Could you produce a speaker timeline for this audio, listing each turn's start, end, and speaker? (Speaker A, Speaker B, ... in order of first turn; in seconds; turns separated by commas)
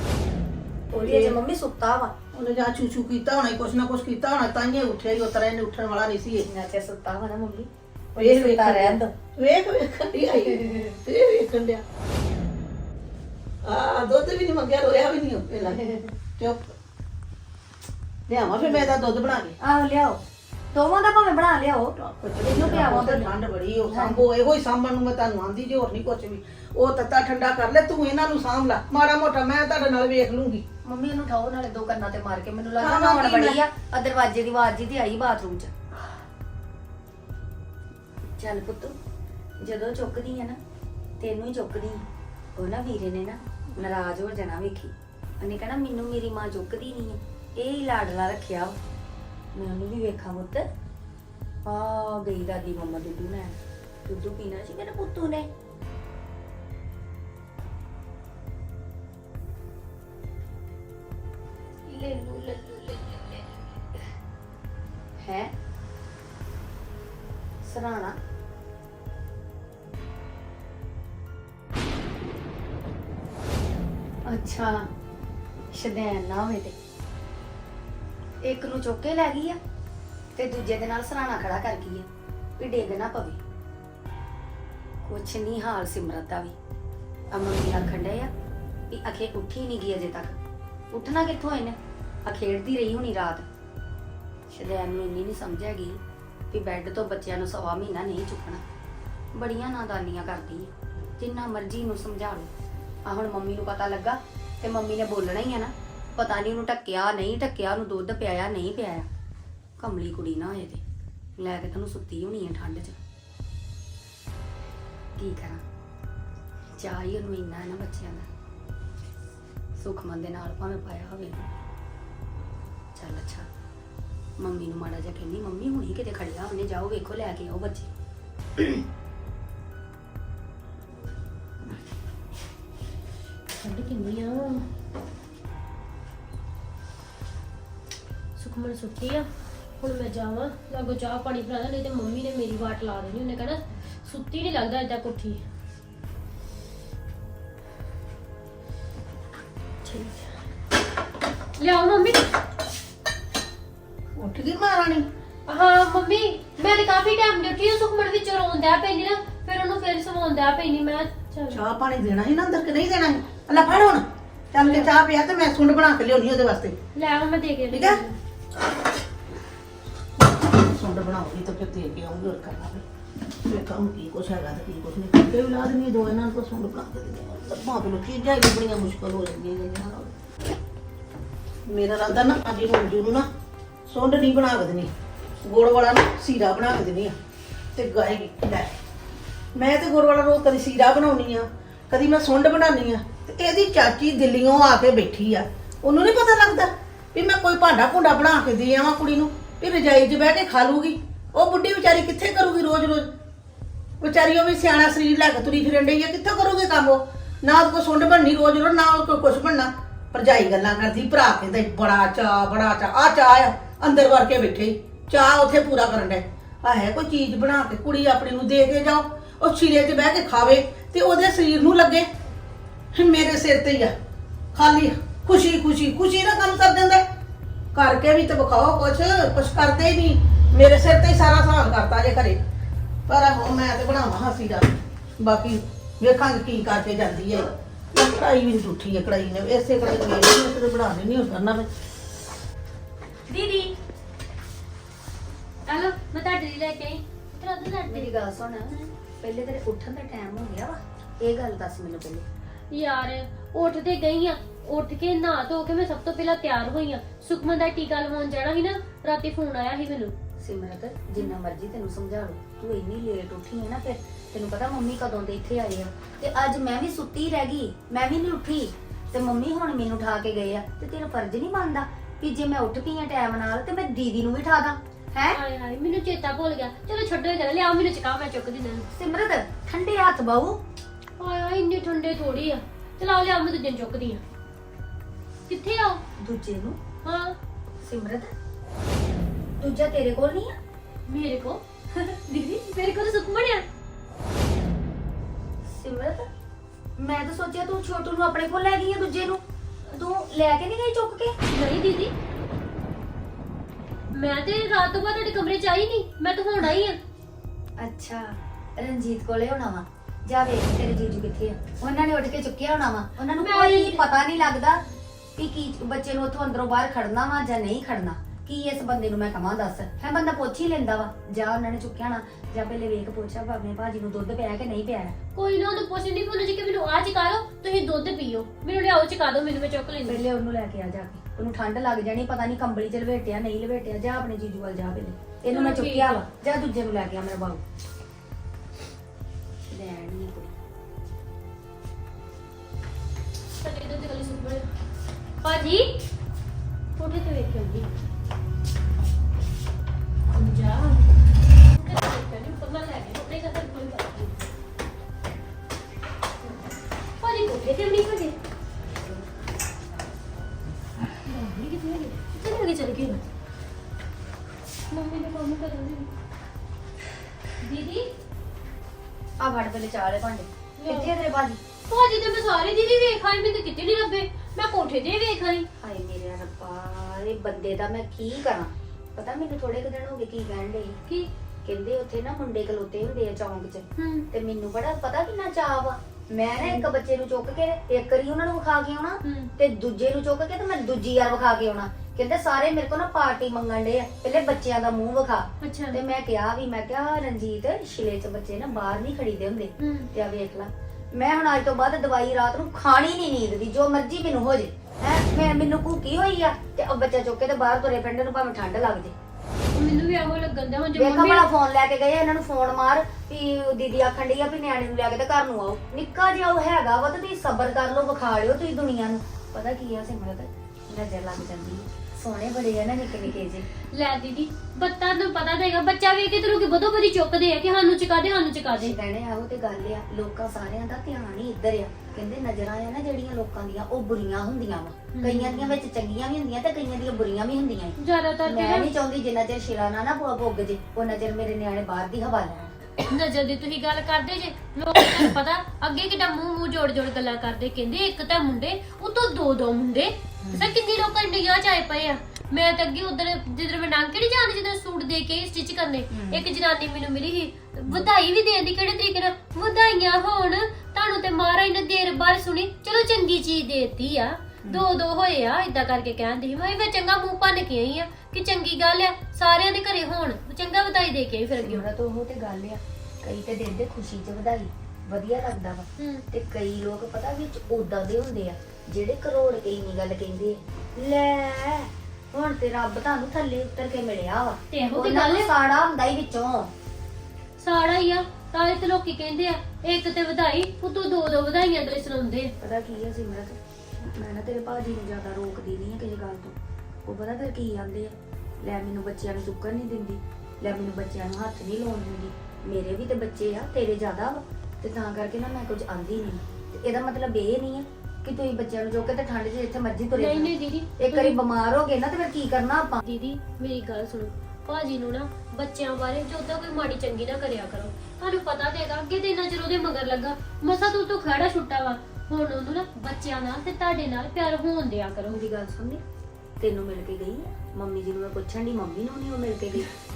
Speaker A: 0.9-2.1, Speaker B: 1.0-1.4, Speaker B: 2.3-6.5, Speaker A: 6.4-9.1, Speaker B: 8.2-11.8, Speaker A: 10.6-10.9, Speaker B: 13.6-15.8, Speaker A: 15.8-16.1, Speaker B: 16.4-16.7, Speaker B: 18.3-19.6, Speaker A: 19.6-20.2, Speaker A: 20.7-23.3, Speaker B: 22.0-30.6, Speaker A: 23.9-24.2, Speaker A: 30.8-35.7, Speaker B: 32.8-33.6, Speaker A: 38.4-39.0, Speaker A: 39.6-40.6, Speaker A: 41.2-42.0, Speaker A: 42.5-48.8, Speaker A: 49.5-50.7, Speaker A: 51.6-55.5, Speaker A: 61.9-63.5, Speaker A: 65.2-65.5, Speaker A: 67.6-68.2, Speaker A: 74.2-74.9, Speaker A: 75.7-76.8, Speaker A: 78.4-79.6, Speaker A: 80.3-82.1, Speaker A: 82.6-83.4, Speaker A: 85.0-86.5, Speaker A: 87.3-88.3, Speaker A: 88.9-90.4, Speaker A: 90.9-93.5, Speaker A: 94.5-96.0, Speaker A: 96.5-98.6, Speaker A: 99.3-102.5, Speaker A: 103.0-109.1, Speaker A: 109.8-110.8, Speaker A: 111.4-113.0, Speaker A: 115.2-115.6, Speaker A: 116.8-118.3, Speaker A: 119.8-121.5, Speaker A: 122.9-123.5, Speaker A: 124.4-127.9, Speaker A: 128.6-128.8, Speaker C: 133.5-134.7, Speaker C: 138.4-139.3, Speaker C: 139.8-145.4, Speaker A: 149.8-150.3, Speaker C: 151.6-152.2, Speaker B: 154.2-155.1, Speaker C: 155.5-161.6, Speaker B: 161.5-166.8, Speaker C: 164.6-164.9, Speaker C: 166.9-168.2, Speaker B: 167.7-168.0, Speaker B: 170.2-180.1, Speaker B: 181.7-183.3, Speaker B: 183.9-187.1, Speaker B: 187.7-188.7, Speaker B: 189.5-203.1, Speaker B: 204.0-222.1, Speaker B: 222.9-223.9, Speaker B: 224.5-227.0, Speaker B: 227.7-232.4, Speaker B: 233.1-241.7, Speaker C: 243.3-243.8, Speaker C: 245.7-248.1, Speaker A: 247.8-252.2, Speaker C: 252.7-260.1, Speaker A: 260.4-275.4, Speaker C: 275.3-278.9, Speaker A: 278.9-280.6, Speaker C: 281.2-284.2, Speaker C: 285.5-286.0, Speaker A: 286.2-286.8, Speaker C: 287.0-287.4, Speaker A: 287.8-288.3, Speaker A: 289.6-290.6, Speaker C: 291.1-293.6, Speaker A: 295.6-296.3, Speaker A: 297.0-301.4, Speaker C: 301.5-302.1, Speaker C: 304.1-307.0, Speaker A: 307.8-314.8, Speaker C: 313.4-314.2, Speaker A: 315.4-325.2, Speaker C: 325.4-330.2, Speaker A: 330.1-337.6, Speaker C: 335.5-336.2, Speaker A: 339.7-340.5, Speaker C: 343.6-344.7, Speaker C: 345.4-346.0, Speaker C: 347.0-347.9, Speaker C: 350.3-351.1, Speaker C: 351.6-354.5, Speaker C: 357.2-358.4, Speaker C: 361.2-363.2, Speaker C: 364.9-366.1, Speaker C: 367.6-368.1, Speaker A: 369.4-371.6, Speaker C: 370.8-371.1, Speaker C: 371.9-375.7, Speaker A: 375.8-381.0, Speaker A: 381.6-409.1, Speaker C: 384.0-384.3, Speaker C: 389.2-389.5, Speaker C: 395.6-396.0, Speaker C: 399.8-400.1, Speaker C: 409.7-411.5, Speaker A: 410.9-423.7, Speaker C: 423.9-428.9, Speaker A: 428.8-442.9, Speaker C: 435.1-435.7, Speaker C: 438.0-438.9, Speaker C: 443.0-471.9, Speaker A: 450.4-450.7, Speaker A: 456.1-456.4, Speaker A: 471.6-486.7, Speaker C: 476.0-476.2, Speaker C: 484.7-485.5, Speaker C: 487.6-492.5, Speaker A: 492.6-513.0, Speaker C: 510.1-511.4, Speaker C: 513.0-525.4, Speaker A: 525.3-526.0, Speaker A: 526.6-529.9